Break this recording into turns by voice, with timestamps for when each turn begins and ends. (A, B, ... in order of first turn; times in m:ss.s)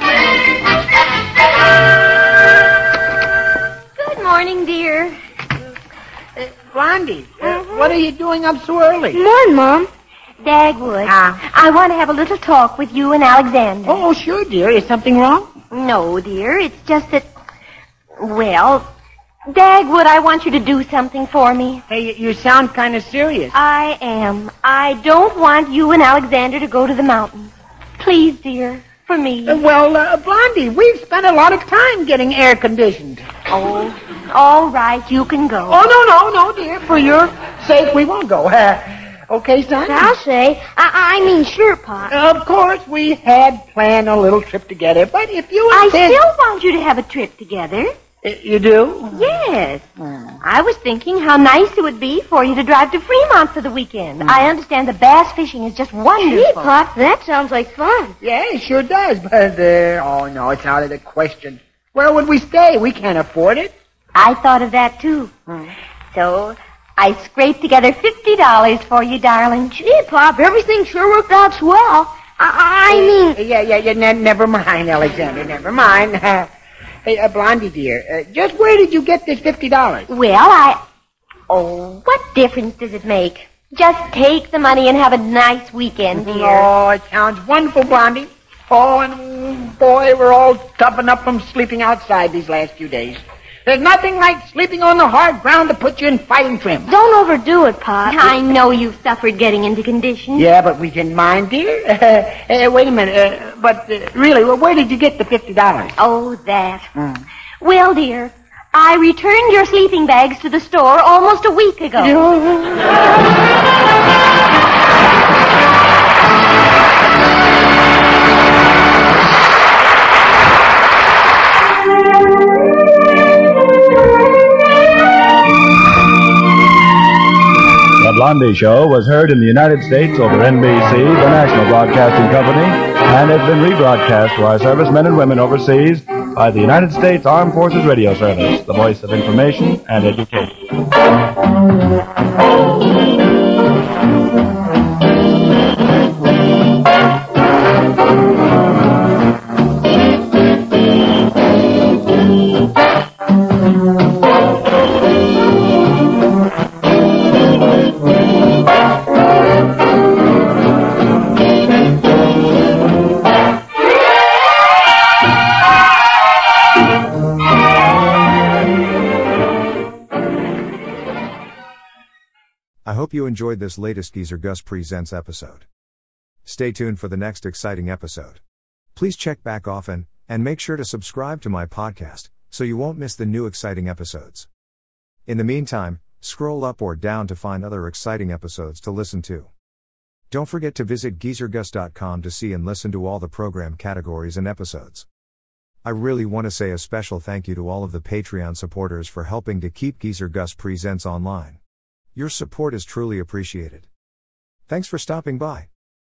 0:04.0-0:05.2 A
0:06.4-0:09.2 B
0:07.4-0:08.0 A
0:09.1-0:09.9 C
0:10.4-0:14.0 A
0:11.1-0:11.4 B
0:13.8-0:15.5 B
0:15.7-0:17.3 A
0:18.2-0:18.9 A
0:19.5-0:21.8 A
0:21.9-0:23.5 B
0:23.5-0:29.6 A
0:29.5-0:33.3 B
0:33.5-0:35.9 A
0:35.7-0:40.1 B
0:39.9-0:42.1 C
0:42.1-0:46.2 B
0:45.7-0:47.9 A
0:48.2-0:49.2 B
0:49.1-0:49.8 A
0:50.0-0:50.4 B
0:50.4-0:56.7 A
0:56.2-0:58.2 C
0:58.2-1:03.7 B
1:04.2-1:05.3 A
1:05.5-1:05.7 B
1:06.1-1:09.8 A
1:09.8-1:13.4 C
1:12.9-1:16.5 B
1:17.0-1:20.1 B
1:20.1-1:20.8 A
1:21.5-1:26.7 A
1:26.2-1:36.9 B
1:36.9-1:38.3 C
1:38.0-1:40.5 A
1:40.4-1:46.0 B
1:46.0-1:46.9 A
1:47.0-1:47.2 B
1:47.6-1:52.2 A
1:52.0-1:52.9 B
2:08.0-2:20.6 D
2:52.8-2:55.6 E
2:56.4-2:58.4 E
2:59.0-3:04.5 E
3:05.3-3:09.5 E
3:10.3-3:15.1 E
3:15.8-3:21.6 E
3:22.2-3:23.9 E
3:24.7-3:25.7 E